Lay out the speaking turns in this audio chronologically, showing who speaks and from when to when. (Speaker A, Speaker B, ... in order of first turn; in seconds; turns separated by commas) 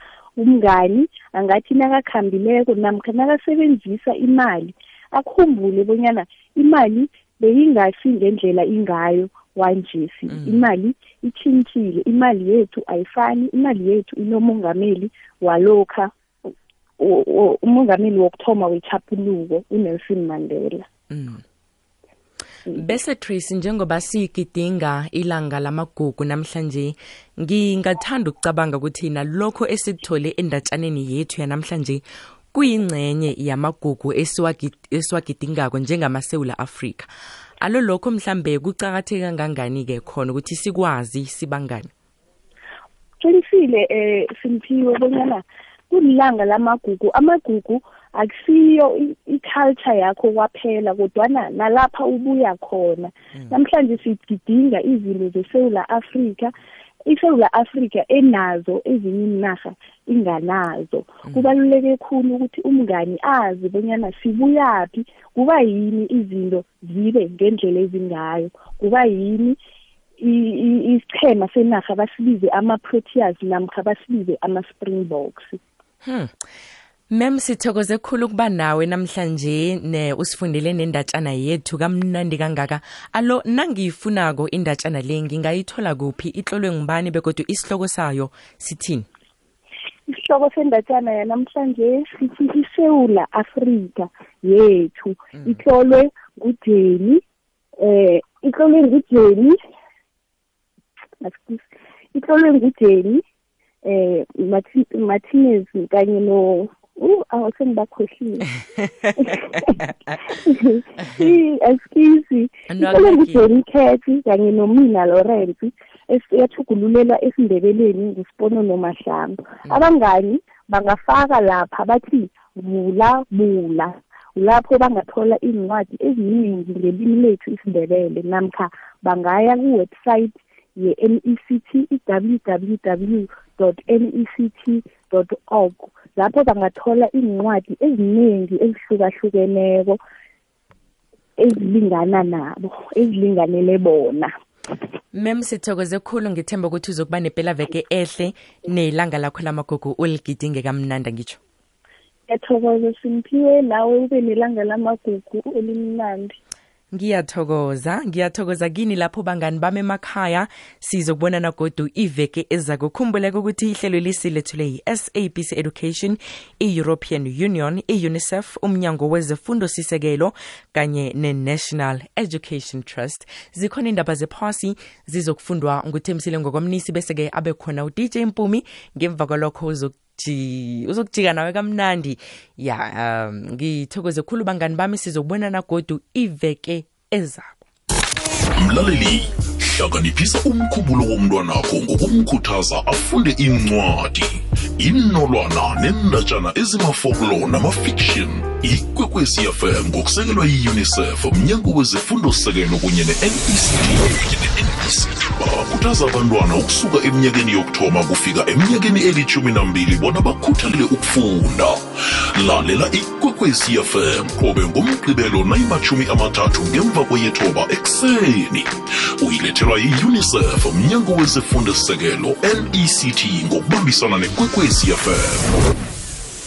Speaker A: 0.4-16.1, Speaker B: 10.3-10.7, Speaker A: 17.0-20.9, Speaker B: 21.1-21.4, Speaker B: 22.7-32.0, Speaker B: 32.5-37.1, Speaker B: 37.6-41.9, Speaker A: 43.2-56.5, Speaker A: 57.1-69.6, Speaker B: 61.3-61.5, Speaker A: 70.2-75.6, Speaker B: 76.0-76.3, Speaker B: 77.1-89.1, Speaker A: 90.1-97.2, Speaker B: 95.3-95.6, Speaker A: 97.8-99.6, Speaker A: 101.2-103.2, Speaker A: 103.8-108.5, Speaker A: 109.2-140.0, Speaker B: 112.7-113.5, Speaker A: 141.4-144.3, Speaker B: 145.1-151.4, Speaker A: 152.3-156.4, Speaker B: 156.9-187.7, Speaker C: 188.6-225.6